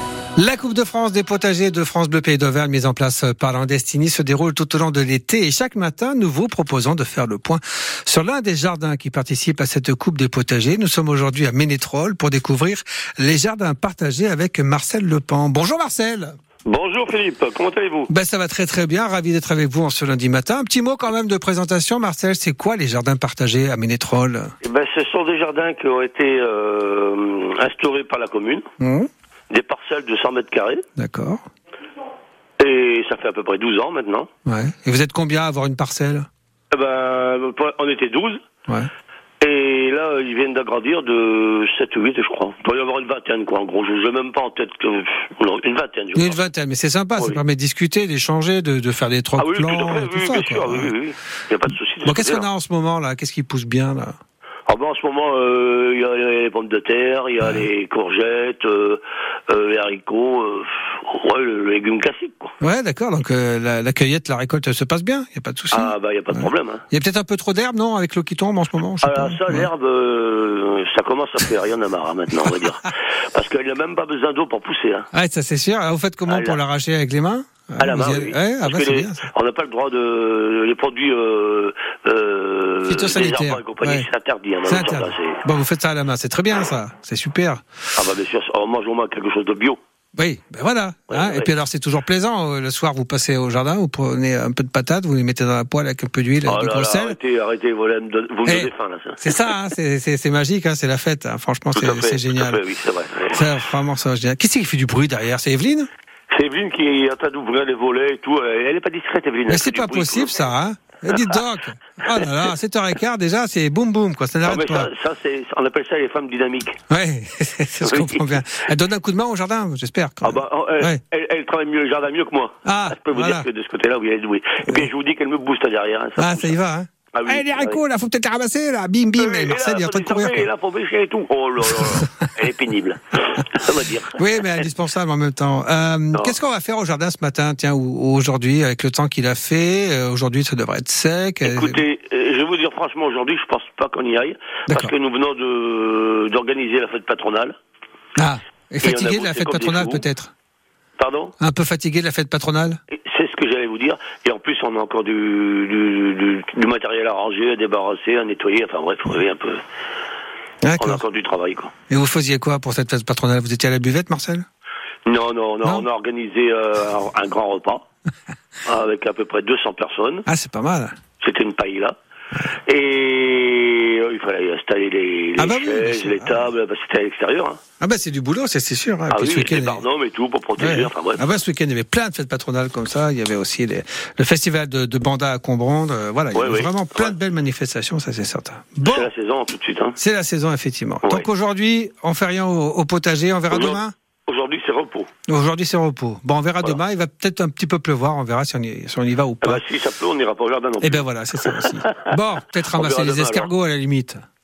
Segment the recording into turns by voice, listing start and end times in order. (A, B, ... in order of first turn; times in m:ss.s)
0:00.4-0:16.4 A
0:16.6-0:18.1 B
0:18.1-0:24.5 A
0:24.6-0:28.6 B
0:28.8-0:29.1 A
0:29.5-0:30.8 B
0:31.0-0:31.4 A
0:32.6-0:34.3 B
0:34.4-0:36.3 A
0:36.7-0:38.4 B
0:39.4-0:46.4 B
0:46.1-0:50.9 A
0:49.4-0:52.5 B
0:52.0-0:54.2 A
0:54.7-1:02.5 B
1:02.6-1:09.7 A
1:05.7-1:06.8 B
1:09.0-1:15.1 B
1:15.1-1:19.3 A
1:16.3-1:16.6 B
1:17.8-1:25.4 B
1:22.9-1:24.1 A
1:24.7-1:27.6 A
1:28.0-1:29.8 B
1:30.2-1:37.2 A
1:31.1-1:31.5 B
1:36.4-1:39.5 B
1:38.4-1:42.6 A
1:41.7-1:43.5 B
1:43.3-1:45.9 A
1:46.3-1:50.4 B
1:49.5-1:54.9 A
1:51.1-1:51.4 B
1:54.4-1:56.8 B
1:56.9-2:01.0 A
1:57.8-1:58.6 B
2:00.2-2:06.6 B
2:02.6-2:03.5 A
2:06.2-2:10.5 A
2:07.1-2:07.8 B
2:09.2-2:14.6 B
2:11.7-2:12.0 A
2:14.1-2:21.8 A
2:21.4-2:27.5 B
2:24.7-2:24.9 A
2:28.2-2:30.3 A
2:28.8-2:30.0 B
2:31.0-2:31.3 B
2:31.4-2:32.8 A
2:32.9-2:39.6 B
2:40.6-2:41.0 A
2:40.8-2:41.7 B
2:41.9-2:44.4 A
2:45.0-2:47.8 B
2:48.6-2:50.2 B
2:50.3-2:51.0 A
2:51.2-2:51.9 B
2:52.7-2:57.6 B
2:55.4-2:56.5 A
2:57.8-2:59.8 A
2:59.1-3:01.3 B
3:00.6-3:09.1 A
3:06.3-3:07.1 B
3:08.8-3:10.0 B
3:10.0-3:13.9 A
3:13.5-3:15.1 B
3:15.3-3:19.6 A
3:19.4-3:23.5 B
3:20.8-3:24.2 A